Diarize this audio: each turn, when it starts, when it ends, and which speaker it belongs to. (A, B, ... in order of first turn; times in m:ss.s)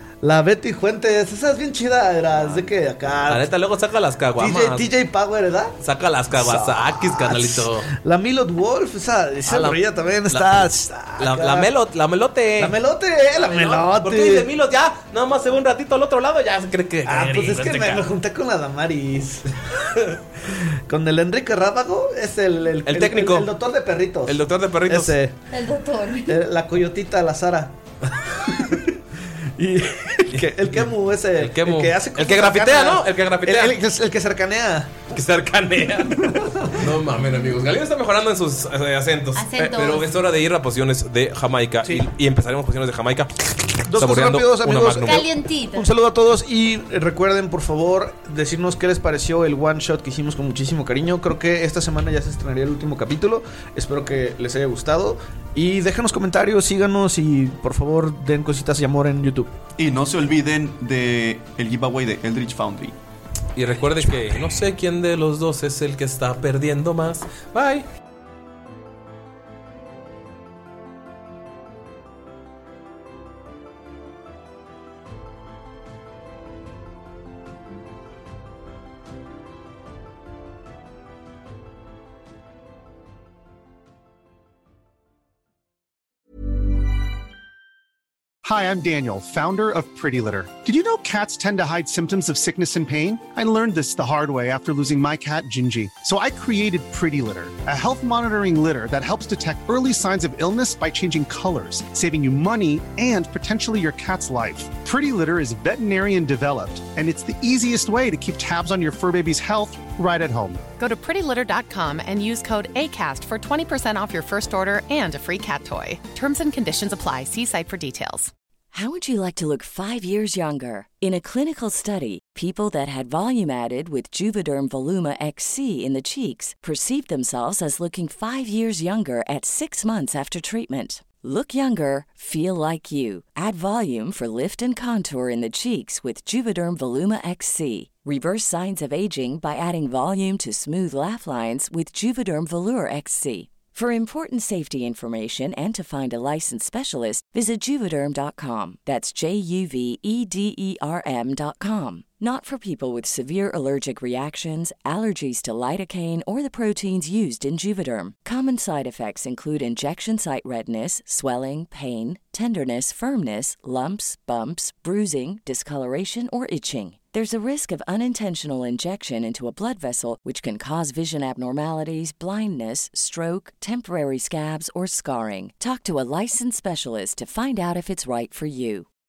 0:00.2-0:03.5 A
0:03.3-0:04.9 B
0:04.4-0:05.8 A
0:05.8-0:07.9 B
0:06.3-0:11.7 A
0:09.4-0:12.8 B
0:12.6-0:14.5 A
0:13.3-0:18.1 B
0:17.0-0:19.4 A
0:19.8-0:20.2 B
0:20.9-0:25.4 A
0:22.8-0:23.5 B
0:24.2-0:25.2 B
0:25.5-0:26.3 C
0:26.3-0:27.7 A
0:29.6-0:35.0 A
0:30.3-0:33.8 B
0:35.1-0:45.3 B
0:39.3-0:40.1 C
0:43.9-0:59.5 A
0:45.0-0:45.9 C
0:59.8-1:03.0 D
1:03.6-1:07.8 B
1:28.4-1:50.6 E
1:50.8-1:58.3 F
1:58.7-2:58.9 G